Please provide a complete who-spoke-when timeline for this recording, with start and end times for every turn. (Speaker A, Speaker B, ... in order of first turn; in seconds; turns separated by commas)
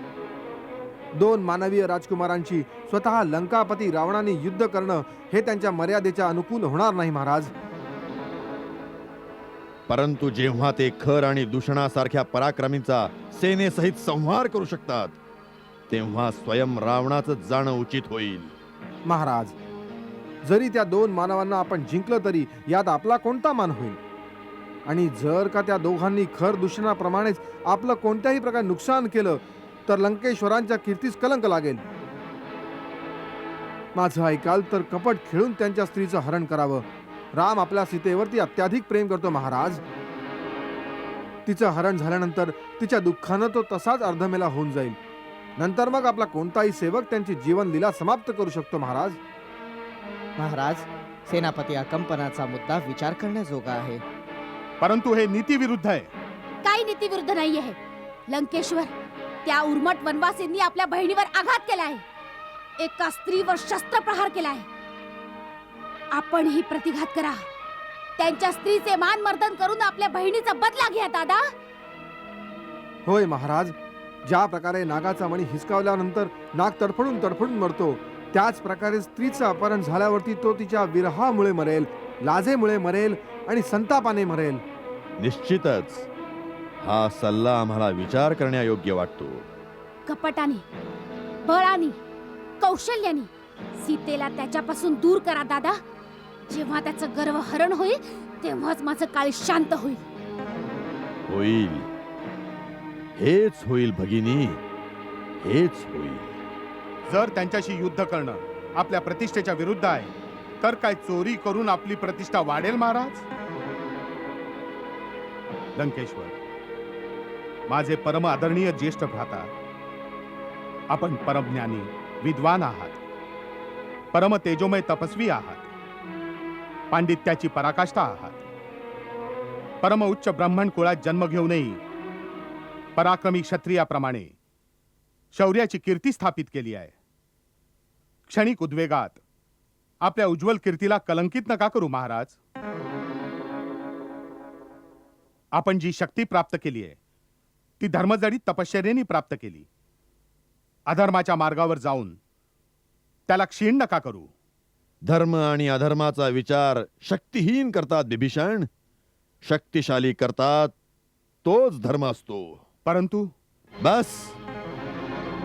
Speaker A: 1.1-7.5, Speaker B: 9.9-15.2, Speaker B: 15.9-18.5, Speaker A: 19.0-19.5, Speaker A: 20.4-24.0, Speaker A: 24.9-31.9, Speaker A: 33.9-36.8, Speaker A: 37.4-39.8, Speaker A: 41.5-45.0, Speaker A: 45.6-49.2, Speaker C: 50.4-54.0, Speaker D: 54.8-56.1, Speaker E: 56.6-57.8, Speaker E: 58.3-58.9, Speaker E: 59.4-62.0, Speaker E: 62.8-64.7, Speaker E: 66.1-67.4, Speaker E: 68.2-71.5, Speaker A: 73.0-73.7, Speaker A: 74.2-84.6, Speaker B: 85.2-86.1, Speaker B: 86.8-89.5, Speaker E: 90.0-90.6, Speaker E: 91.4-92.0, Speaker E: 92.6-95.8, Speaker E: 96.5-100.0, Speaker B: 101.3-101.9, Speaker B: 103.2-104.6, Speaker B: 105.4-106.4, Speaker D: 107.1-113.2, Speaker D: 115.8-116.3, Speaker D: 117.7-119.5, Speaker D: 120.9-123.0, Speaker D: 124.1-125.7, Speaker D: 126.9-128.4, Speaker D: 129.8-131.8, Speaker D: 132.9-134.3, Speaker D: 135.3-136.9, Speaker D: 138.3-139.2, Speaker D: 140.0-142.3, Speaker D: 145.5-146.9, Speaker D: 147.8-149.7, Speaker D: 150.9-152.2, Speaker D: 153.3-154.3, Speaker B: 155.1-158.7, Speaker B: 159.4-160.7, Speaker B: 161.4-162.6, Speaker D: 162.8-163.3, Speaker B: 163.8-164.4